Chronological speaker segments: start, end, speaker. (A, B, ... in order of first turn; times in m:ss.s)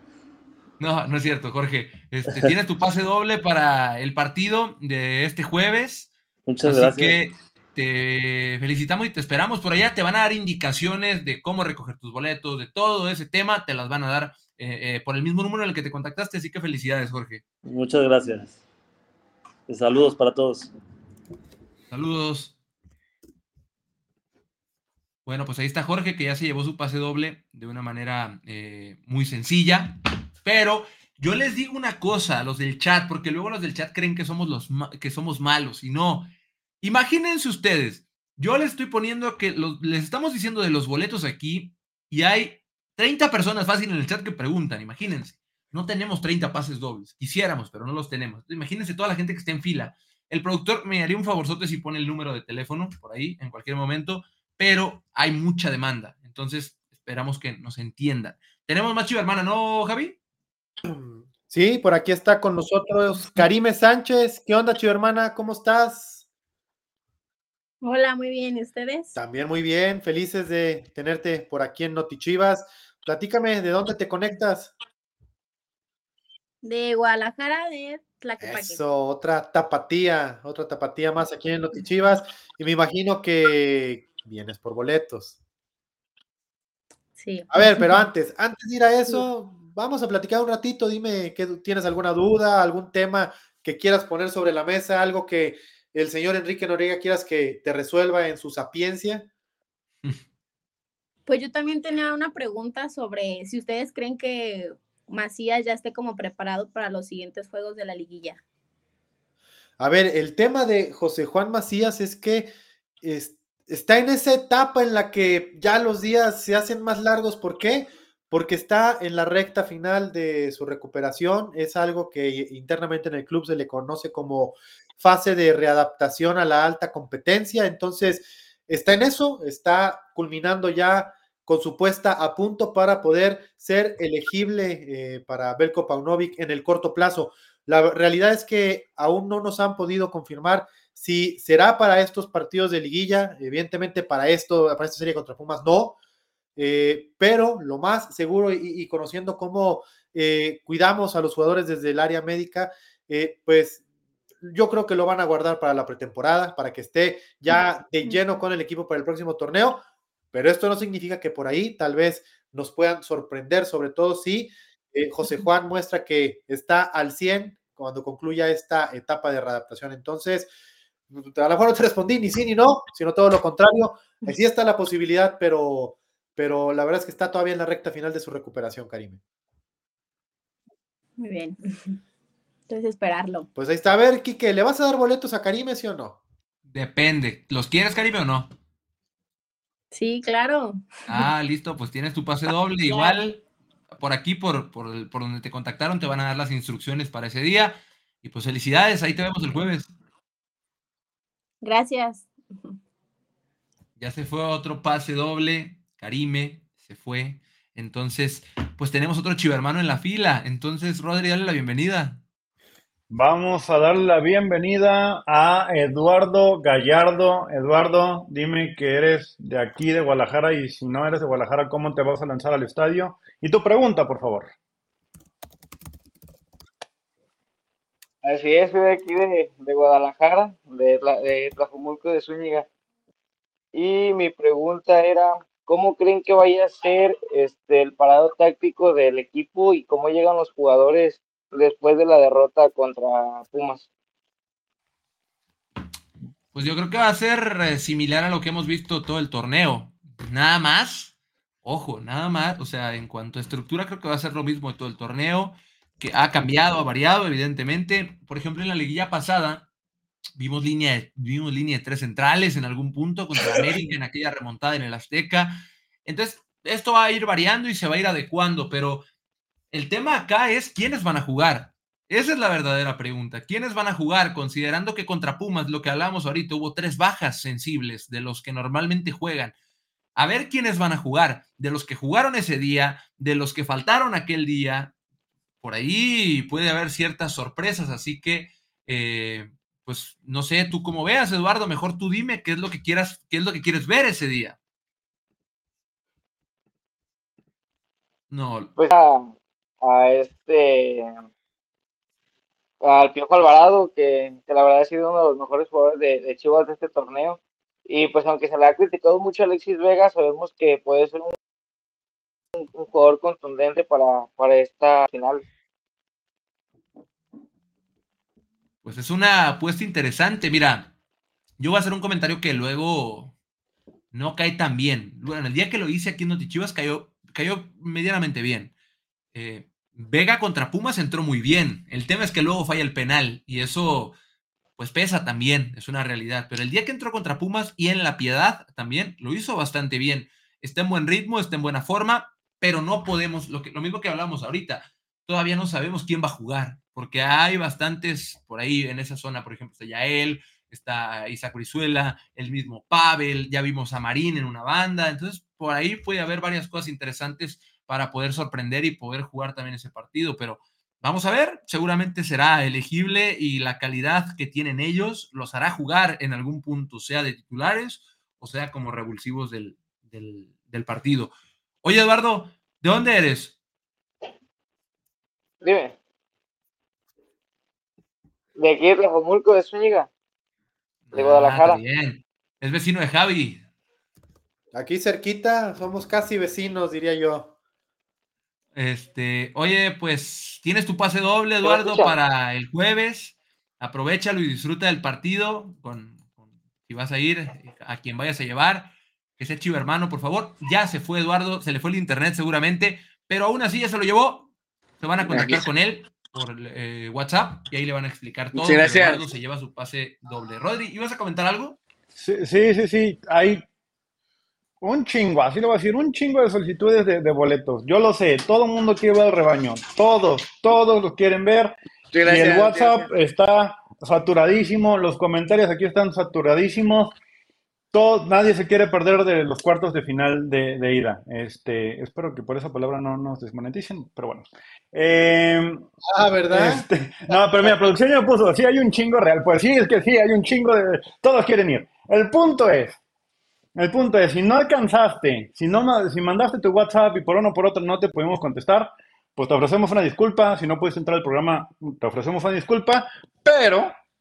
0:00.8-0:06.1 A
0:06.4-0:07.2 B
0:06.6-0:17.4 A
0:17.7-0:18.6 B
0:19.7-0:20.7 B
0:21.9-0:22.5 A
0:25.2-0:36.3 A
0:36.8-1:00.2 A
1:00.8-1:06.2 C
1:07.8-1:09.2 D
1:09.2-1:14.7 C
1:16.6-1:18.8 D
1:18.4-1:25.4 C
1:27.2-1:28.0 D
1:27.5-1:39.3 C
1:41.3-1:48.4 D
1:49.8-1:52.5 C
1:53.0-2:26.0 C
2:26.6-2:33.8 C
2:34.4-2:50.5 C
2:51.1-2:59.2 C
3:01.2-3:02.0 D
3:02.7-3:03.5 D
3:03.6-3:06.2 C
3:06.7-3:08.5 A
3:09.9-3:11.2 D
3:11.1-3:13.4 A
3:12.9-3:13.2 D
3:14.0-3:19.9 A
3:21.6-3:22.7 D
3:24.0-3:32.2 A
3:33.1-3:44.5 E
3:48.2-3:52.7 F
3:53.7-4:03.9 F
4:06.5-4:19.7 A
4:20.4-4:29.0 A
4:29.7-4:39.5 A
4:40.2-4:44.9 A
4:45.6-4:54.6 A
4:58.3-4:58.8 A
4:58.8-5:01.2 F
5:02.8-5:11.4 F
5:12.6-5:15.4 F
5:18.8-5:20.9 A
5:21.6-5:23.3 A
5:24.1-5:28.7 A
5:29.3-5:34.1 A
5:34.8-6:13.5 A
6:15.6-6:16.0 F
6:18.6-6:20.1 F
6:21.1-6:23.6 A
6:21.1-6:21.8 F
6:24.7-6:27.5 C
6:28.7-6:36.3 A
6:31.6-6:32.1 F
6:36.8-6:44.5 A
6:45.0-6:51.8 A
6:52.1-6:53.6 E
6:54.8-7:07.1 E
7:02.1-7:03.0 F
7:07.9-7:15.8 E
7:16.1-7:17.7 C
7:16.5-7:23.0 E
7:23.7-7:33.9 E